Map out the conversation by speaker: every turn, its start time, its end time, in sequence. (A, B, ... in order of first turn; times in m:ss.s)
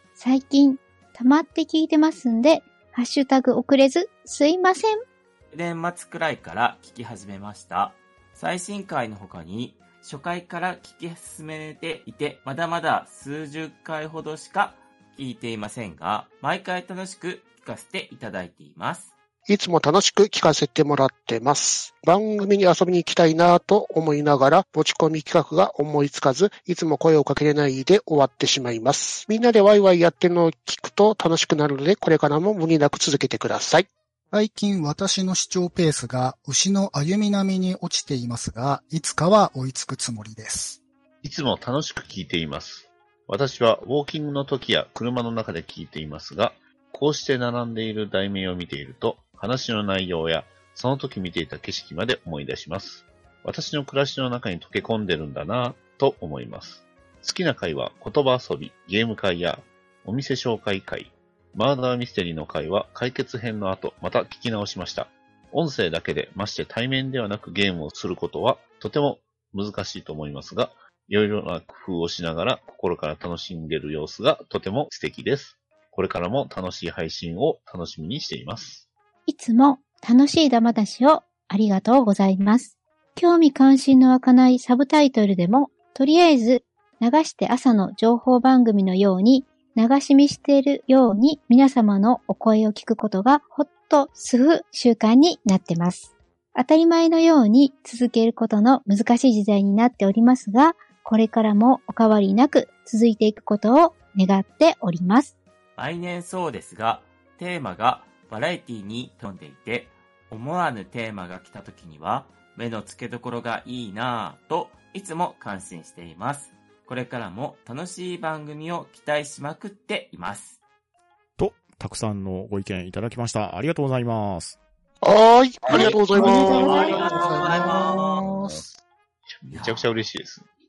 0:00.2-0:05.0 A
0:05.5-0:19.1 B
0:19.5-0:33.9 C
0:34.3-0:40.8 D
0:41.2-1:18.8 E
1:19.3-1:45.3 A
1:45.8-2:00.6 B
2:01.4-2:04.6 F
2:05.0-2:07.2 C
2:05.7-2:08.2 B
2:05.8-2:07.3 A
2:05.8-2:08.7 E
2:09.3-2:10.5 E
2:09.5-2:10.1 B